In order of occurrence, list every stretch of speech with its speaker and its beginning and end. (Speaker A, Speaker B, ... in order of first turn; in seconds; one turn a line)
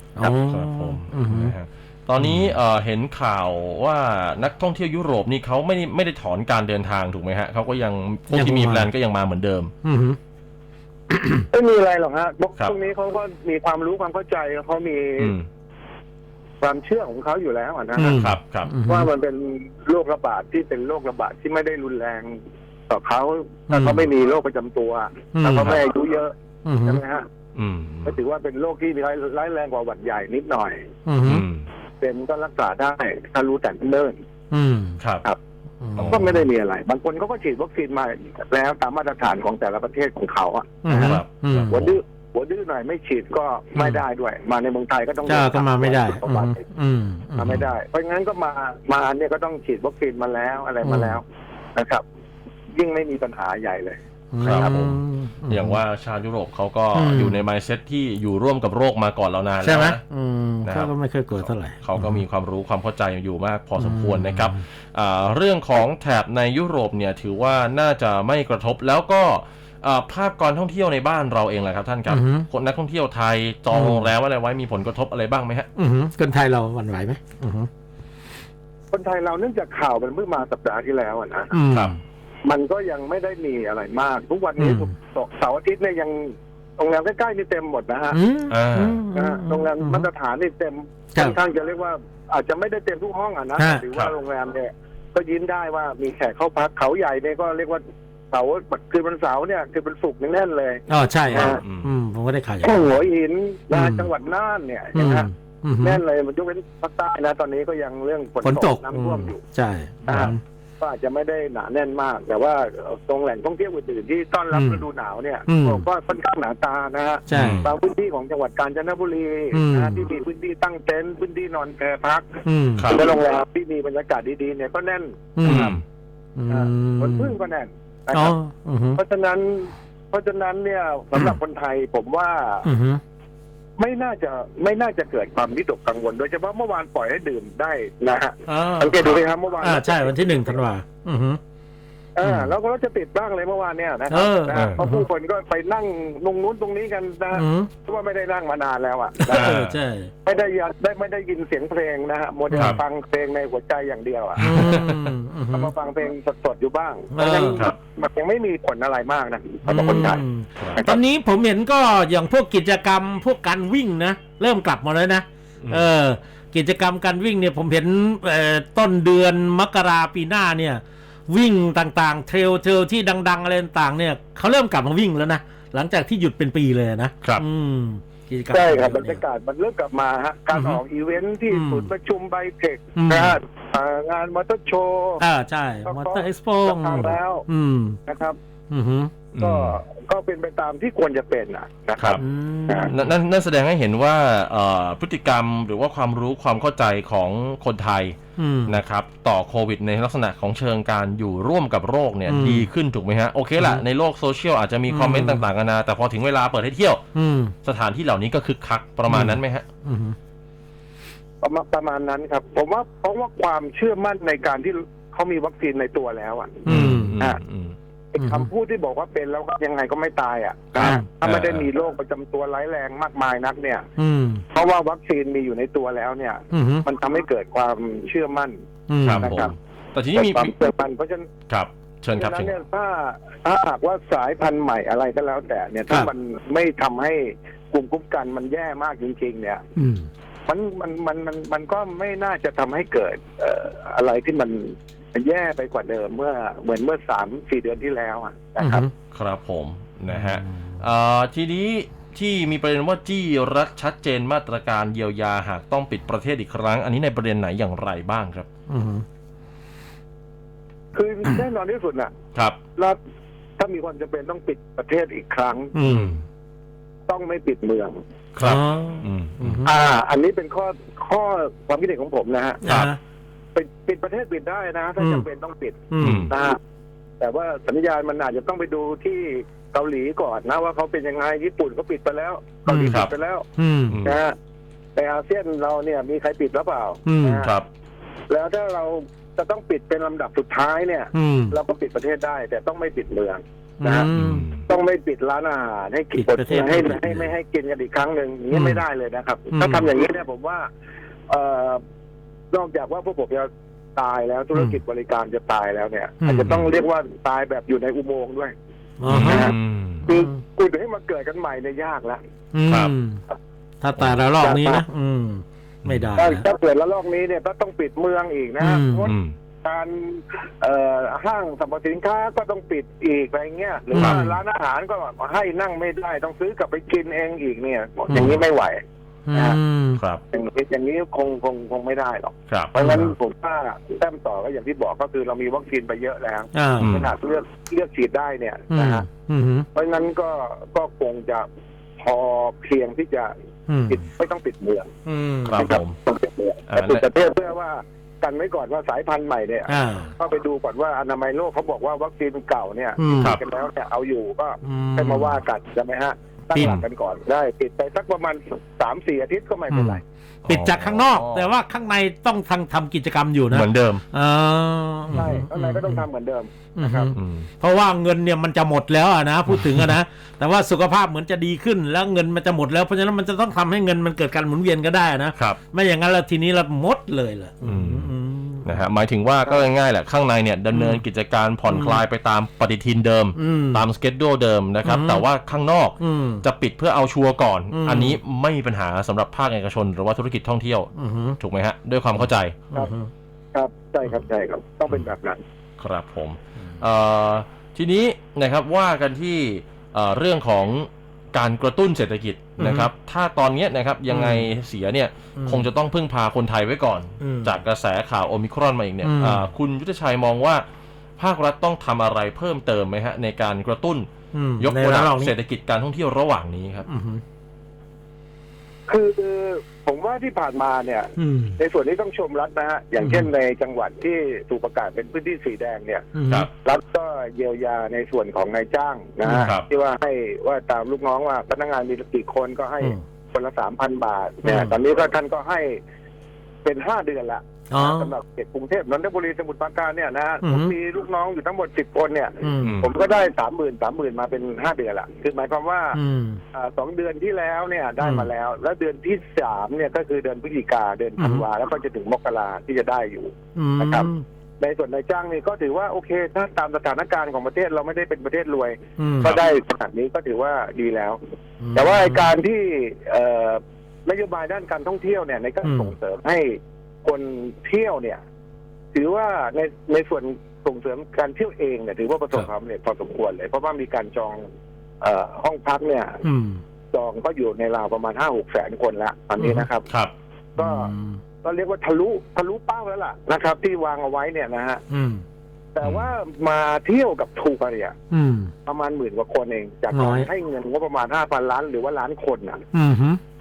Speaker A: 0.2-1.5
Speaker B: 0.2-9.7
Speaker A: 2.2-2.5
Speaker A: 8.3-8.9
Speaker A: 9.8-10.2
Speaker A: 11.1-11.4
Speaker C: 11.5-15.3
Speaker B: 15.2-15.4
Speaker C: 16.6-18.2
Speaker A: 17.9-19.1
Speaker B: 18.2-18.7
Speaker C: 18.9-22.4
Speaker C: 22.9-26.3
Speaker A: 23.7-24.1
Speaker A: 25.3-25.8
Speaker A: 26.6-27.0
Speaker C: 26.8-27.2
Speaker B: 27.5-28.1
Speaker C: 28.1-30.8
Speaker A: 31.1-31.4
Speaker B: 31.2-31.6
Speaker C: 32.0-34.1
Speaker A: 34.5-35.0
Speaker A: 35.8-36.4
Speaker B: 35.9-36.3
Speaker C: 36.0-46.6
Speaker A: 40.8-41.9
Speaker B: 40.9-41.8
Speaker A: 43.7-44.0
Speaker A: 45.2-47.7
Speaker C: 47.4-51.2
Speaker A: 50.8-51.2
Speaker C: 51.8-52.0
Speaker C: 52.7-54.0
Speaker A: 54.3-55.8
Speaker B: 54.4-60.0
Speaker A: 56.9-57.4
Speaker A: 59.6-62.2
Speaker B: 60.6-75.7
Speaker A: 63.8-64.6
Speaker A: 72.1-72.5
Speaker A: 73.7-74.1
Speaker A: 75.8-77.7
Speaker C: 78.9-81.5
Speaker A: 81.5-82.0
Speaker C: 82.5-88.2
Speaker A: 84.6-84.9
Speaker A: 88.1-90.1
Speaker B: 88.5-89.0
Speaker C: 89.1-101.6
Speaker A: 93.6-93.8
Speaker A: 100.9-102.8
Speaker B: 101.3-101.9
Speaker C: 102.6-105.3
Speaker A: 103.7-104.1
Speaker A: 104.9-106.0
Speaker C: 105.8-109.4
Speaker A: 108.4-110.4
Speaker B: 110.0-110.3
Speaker C: 110.1-125.6
Speaker A: 114.5-114.8
Speaker A: 115.5-115.8
Speaker A: 117.3-117.6
Speaker B: 117.3-117.7
Speaker A: 119.5-120.0
Speaker A: 122.4-123.0
Speaker B: 122.8-123.1
Speaker A: 125.3-125.8
Speaker B: 125.4-125.8
Speaker A: 126.3-127.3
Speaker C: 126.5-128.3
Speaker A: 128.1-129.0
Speaker C: 129.0-132.7
Speaker A: 132.6-133.0
Speaker C: 133.8-140.6
Speaker A: 138.5-139.1
Speaker A: 139.6-141.4
Speaker C: 142.2-149.6
Speaker A: 142.2-142.5
Speaker A: 144.1-145.0
Speaker B: 144.5-144.8
Speaker A: 147.3-147.7
Speaker A: 149.2-150.1
Speaker B: 149.3-149.8
Speaker C: 150.2-154.7
Speaker A: 152.5-152.8
Speaker B: 152.5-152.8
Speaker B: 154.4-155.1
Speaker A: 154.4-155.7
Speaker C: 155.5-160.2
Speaker A: 157.1-157.7
Speaker A: 159.6-179.2
Speaker C: 160.8-161.0
Speaker B: 165.6-165.9
Speaker C: 178.5-185.2
Speaker A: 180.5-180.8
Speaker A: 181.5-181.9
Speaker A: 182.9-183.4
Speaker A: 185.2-188.0
Speaker C: 185.8-187.4
Speaker C: 188.1-188.4
Speaker A: 188.7-189.1
Speaker B: 189.3-189.8
Speaker C: 189.4-192.9
Speaker A: 192.2-192.9
Speaker B: 192.8-207.0
Speaker A: 198.4-198.8
Speaker A: 202.3-202.7
Speaker A: 203.6-203.8
Speaker A: 204.9-205.5
Speaker A: 207.1-207.5
Speaker B: 207.6-209.7
Speaker A: 209.1-210.2
Speaker C: 211.4-217.4
Speaker A: 216.6-217.2
Speaker B: 216.7-217.8
Speaker C: 218.1-223.8
Speaker A: 218.2-218.5
Speaker B: 220.8-221.7
Speaker A: 220.8-221.1
Speaker A: 224.0-224.4
Speaker C: 224.5-228.6
Speaker A: 226.5-226.8
Speaker A: 228.9-229.4
Speaker B: 229.0-230.5
Speaker C: 229.2-229.5
Speaker C: 230.1-231.3
Speaker B: 231.5-232.5
Speaker C: 232.2-239.6
Speaker A: 239.8-240.1
Speaker C: 240.5-248.9
Speaker A: 248.6-248.9
Speaker B: 249.1-258.5
Speaker A: 250.1-250.7
Speaker A: 258.7-259.0
Speaker C: 260.9-262.1
Speaker C: 263.6-265.7
Speaker A: 265.7-266.2
Speaker B: 265.9-266.2
Speaker C: 267.1-267.9
Speaker B: 268.3-269.6
Speaker A: 268.4-269.7
Speaker C: 269.6-272.6
Speaker A: 272.6-273.0
Speaker B: 272.6-272.9
Speaker C: 273.5-276.6
Speaker A: 275.0-275.2
Speaker A: 275.9-276.3
Speaker B: 276.0-276.3
Speaker C: 277.2-283.4
Speaker A: 282.7-283.0
Speaker A: 283.6-284.0
Speaker B: 283.9-284.2
Speaker C: 284.0-284.3
Speaker C: 284.9-287.5
Speaker A: 287.1-287.5
Speaker B: 287.4-287.7
Speaker C: 288.3-294.1
Speaker A: 291.1-291.6
Speaker A: 293.8-294.5
Speaker B: 294.1-294.6
Speaker C: 294.6-300.7
Speaker A: 296.1-297.3
Speaker A: 298.5-298.8
Speaker A: 299.5-299.9
Speaker C: 301.3-301.8
Speaker C: 302.5-308.5
Speaker A: 306.2-306.6
Speaker A: 309.0-309.5
Speaker B: 309.1-310.1
Speaker C: 309.1-312.2
Speaker A: 310.0-310.3
Speaker A: 312.5-313.2
Speaker B: 312.7-312.9
Speaker A: 313.8-316.4
Speaker C: 314.4-314.8
Speaker B: 315.8-316.2
Speaker C: 316.1-328.8
Speaker A: 318.6-319.1
Speaker B: 319.1-319.3
Speaker A: 323.9-324.4
Speaker B: 324.0-324.2
Speaker A: 328.1-328.4
Speaker A: 329.3-330.0
Speaker C: 329.3-329.6
Speaker B: 329.9-330.2
Speaker C: 330.3-339.1
Speaker B: 332.5-332.7
Speaker A: 332.8-333.1
Speaker A: 336.5-336.9
Speaker B: 336.8-337.1
Speaker A: 338.7-339.7
Speaker C: 339.7-341.4
Speaker C: 342.0-343.3
Speaker A: 343.7-344.0
Speaker C: 343.9-344.9
Speaker A: 345.1-345.7
Speaker B: 345.4-345.9
Speaker C: 345.6-360.0
Speaker B: 346.7-347.1
Speaker A: 349.7-350.1
Speaker A: 353.0-353.4
Speaker A: 354.6-355.4
Speaker A: 356.5-356.8
Speaker A: 359.7-366.0
Speaker B: 360.4-361.5
Speaker B: 363.5-364.0
Speaker C: 365.2-367.1
Speaker A: 366.8-378.8
Speaker B: 367.1-367.5
Speaker B: 377.6-378.1
Speaker B: 378.6-392.5
Speaker A: 380.7-381.0
Speaker A: 381.7-382.0
Speaker A: 383.3-383.8
Speaker A: 384.8-385.2
Speaker A: 386.0-386.4
Speaker A: 387.7-388.2
Speaker A: 390.9-391.4
Speaker A: 392.7-393.1
Speaker C: 393.5-395.4
Speaker B: 395.8-410.6
Speaker A: 402.6-402.9
Speaker A: 404.1-404.5
Speaker A: 405.4-405.7
Speaker A: 407.2-407.6
Speaker A: 409.0-409.4
Speaker B: 411.2-414.1
Speaker A: 414.3-415.3
Speaker B: 414.6-416.9
Speaker A: 416.9-417.2
Speaker C: 418.9-435.8
Speaker A: 421.2-421.6
Speaker A: 423.0-423.3
Speaker A: 426.1-426.5
Speaker A: 429.2-429.5
Speaker B: 429.4-429.6
Speaker A: 434.4-434.7
Speaker C: 436.6-446.0
Speaker A: 437.7-438.1
Speaker A: 440.4-440.7
Speaker A: 442.4-442.8
Speaker B: 442.6-442.9
Speaker A: 445.9-446.4
Speaker C: 446.5-454.1
Speaker A: 448.0-448.3
Speaker A: 451.2-451.4
Speaker A: 453.6-454.2
Speaker C: 454.6-461.2
Speaker A: 459.0-459.4
Speaker A: 461.6-462.3
Speaker C: 461.7-468.2
Speaker A: 465.6-465.9
Speaker C: 468.9-474.4
Speaker C: 475.0-476.2
Speaker A: 476.2-476.6
Speaker C: 476.9-479.9
Speaker A: 479.4-479.7
Speaker C: 480.6-480.9
Speaker A: 480.6-481.2
Speaker C: 481.4-484.8
Speaker A: 484.9-485.2
Speaker C: 485.7-487.9
Speaker B: 485.8-486.1
Speaker A: 488.1-488.5
Speaker C: 488.6-492.6
Speaker A: 489.9-490.3
Speaker A: 492.7-493.2